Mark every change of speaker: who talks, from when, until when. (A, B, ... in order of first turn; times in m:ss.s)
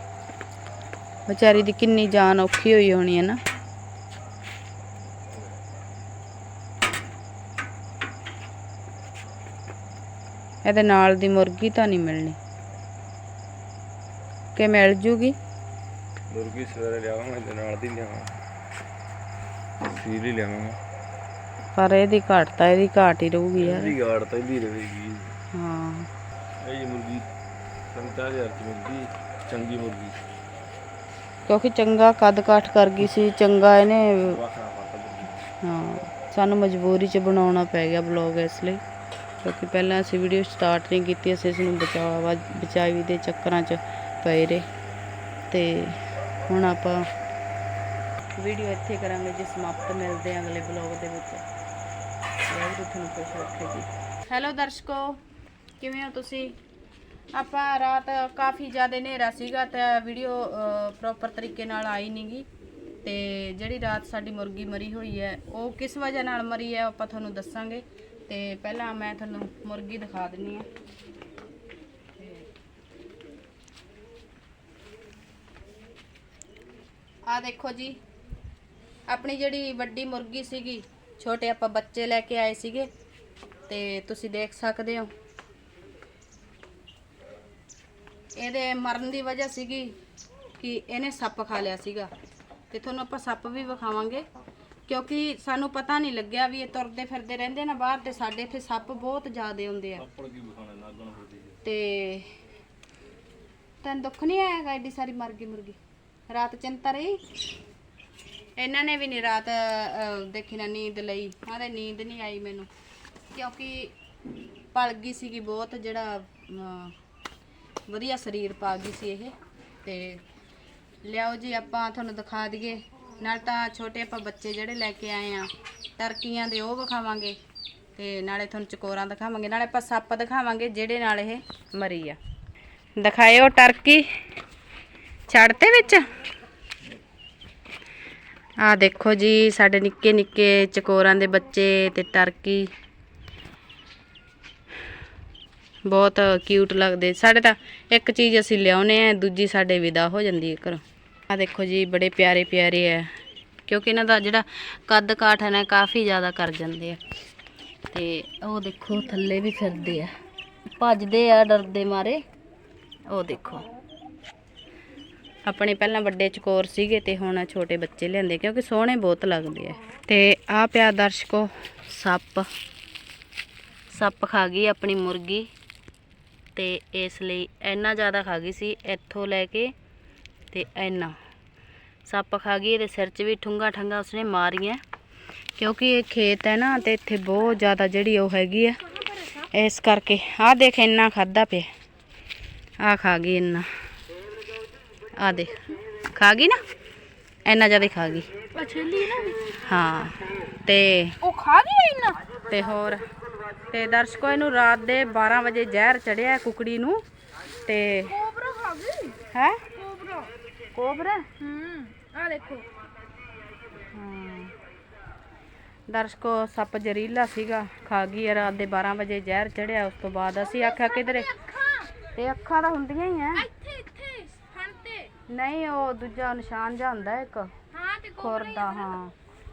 0:01.3-0:03.4 A
0:10.6-0:12.4 A
0:14.6-0:15.4 A
0:16.3-0:18.4 B
0:19.8-0:20.8 B
0:21.8-0:23.9 A
0:23.6-0:25.4 B
0:25.5-0:26.1 A
0:26.6-0:27.3 B
0:27.9-0:30.2 B
0:31.5-0:34.4 A
0:34.2-0:35.4 B
0:35.6-0:38.8 A
0:39.4-0:44.6 A
0:45.5-0:47.1 A
0:48.4-0:51.4 A
0:52.4-0:55.2 A
0:55.8-0:56.6 A
0:57.3-1:02.5 A
1:03.0-1:10.7 A
1:12.2-1:12.4 A
1:17.2-1:18.0 A
1:19.1-1:22.9 A
1:23.7-1:25.1 A
1:28.4-1:30.0 A
1:30.6-1:32.1 A
1:32.7-1:34.2 A
1:34.9-1:40.0 A
1:40.0-1:41.6 B
1:41.6-1:42.3 A
1:43.8-1:45.8 A
1:46.3-1:47.2 A
1:48.6-1:52.7 A
1:53.3-1:53.9 A
1:54.7-1:56.9 A
1:57.9-2:00.2 A
2:01.0-2:07.4 A
2:08.0-2:12.2 A
2:13.0-2:14.0 A
2:15.3-2:16.1 A
2:18.6-2:22.7 A
2:25.8-2:33.1 A
2:33.6-2:37.0 A
2:37.9-2:40.1 A
2:40.8-2:42.2 A
2:43.1-2:43.6 A
2:45.4-2:52.5 A
2:53.9-2:55.5 A
2:56.5-2:59.7 A
3:00.5-3:01.2 A
3:02.0-3:04.8 A
3:05.6-3:08.8 A
3:09.5-3:11.7 A
3:12.8-3:13.7 A
3:15.2-3:15.6 A
3:16.1-3:16.6 A
3:17.4-3:18.3 A
3:18.5-3:19.4 C
3:19.5-3:21.2 A
3:21.2-3:22.2 C
3:22.4-3:23.0 A
3:23.7-3:27.0 A
3:27.6-3:28.2 A
3:28.1-3:29.2 C
3:29.3-3:29.6 A
3:29.7-3:30.3 C
3:30.7-3:31.3 A
3:31.4-3:32.7 C
3:33.9-3:34.5 A
3:35.9-3:41.3 A
3:40.6-3:41.9 C
3:42.1-3:43.5 A
3:43.4-3:45.1 C
3:45.3-3:47.5 A
3:47.7-3:48.9 C
3:48.1-3:49.1 A